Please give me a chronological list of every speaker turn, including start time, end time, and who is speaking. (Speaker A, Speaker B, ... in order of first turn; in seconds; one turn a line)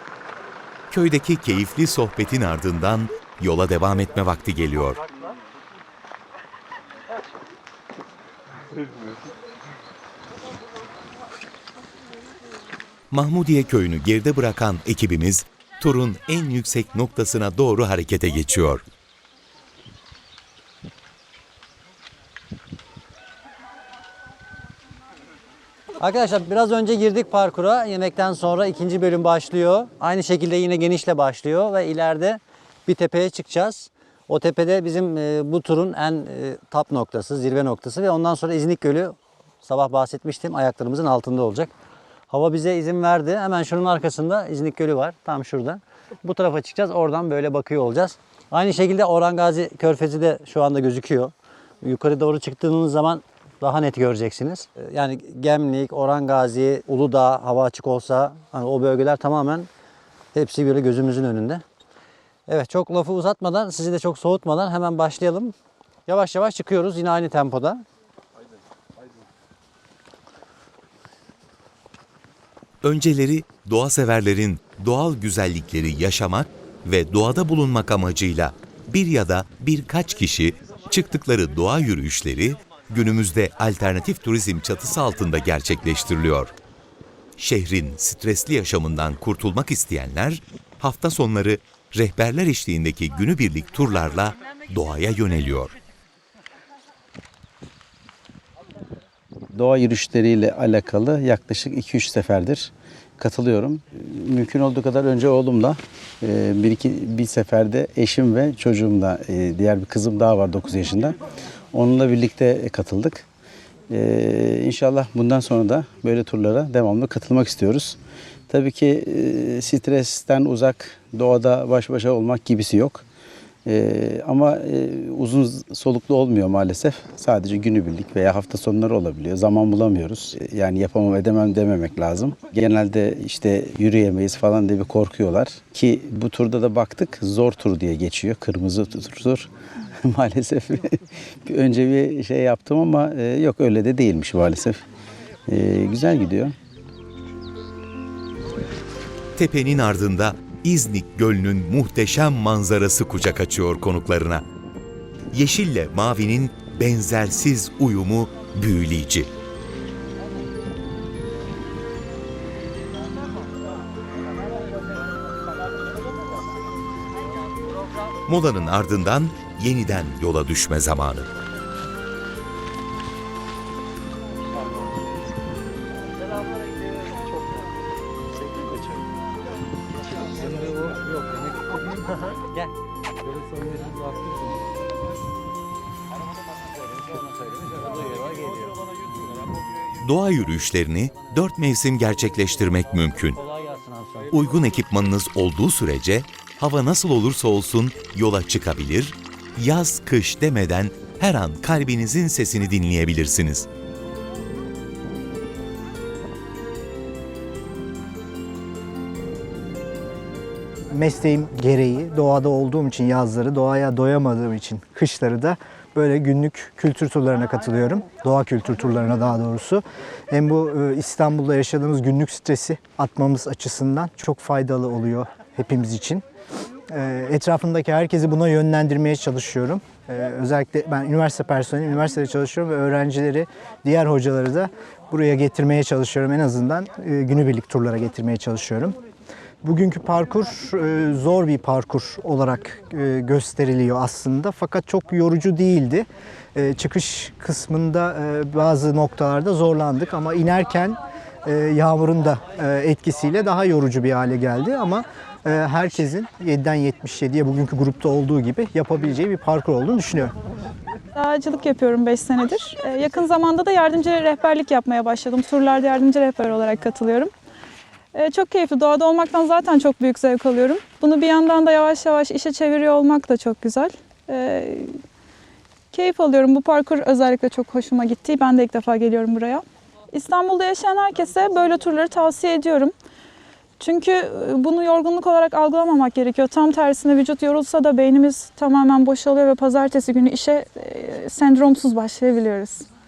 Speaker A: 0.9-5.0
Speaker A: 13.1-18.8
Speaker B: 26.0-41.7
Speaker B: 42.3-59.7
Speaker B: 60.3-61.6
Speaker B: 62.5-65.5
Speaker B: 66.1-67.8
Speaker A: 72.8-86.5
Speaker A: 87.4-95.7
Speaker C: 99.5-111.2
Speaker C: 111.7-113.2
Speaker C: 113.9-118.0
Speaker C: 118.5-123.0
Speaker C: 123.7-139.5
Speaker C: 140.0-144.8
Speaker C: 145.5-146.5
Speaker A: 149.3-154.4
Speaker A: 155.3-159.3
Speaker A: 168.3-171.3
Speaker B: 180.4-181.7
Speaker B: 183.2-184.5
Speaker B: 187.0-188.8
Speaker A: 190.0-193.4
Speaker B: 193.0-194.3
Speaker A: 194.3-203.7
Speaker D: 210.9-226.2
Speaker D: 226.9-239.0
Speaker D: 239.6-260.3
Speaker E: 261.1-267.3
Speaker E: 268.1-274.9
Speaker E: 275.9-282.9
Speaker E: 283.8-292.9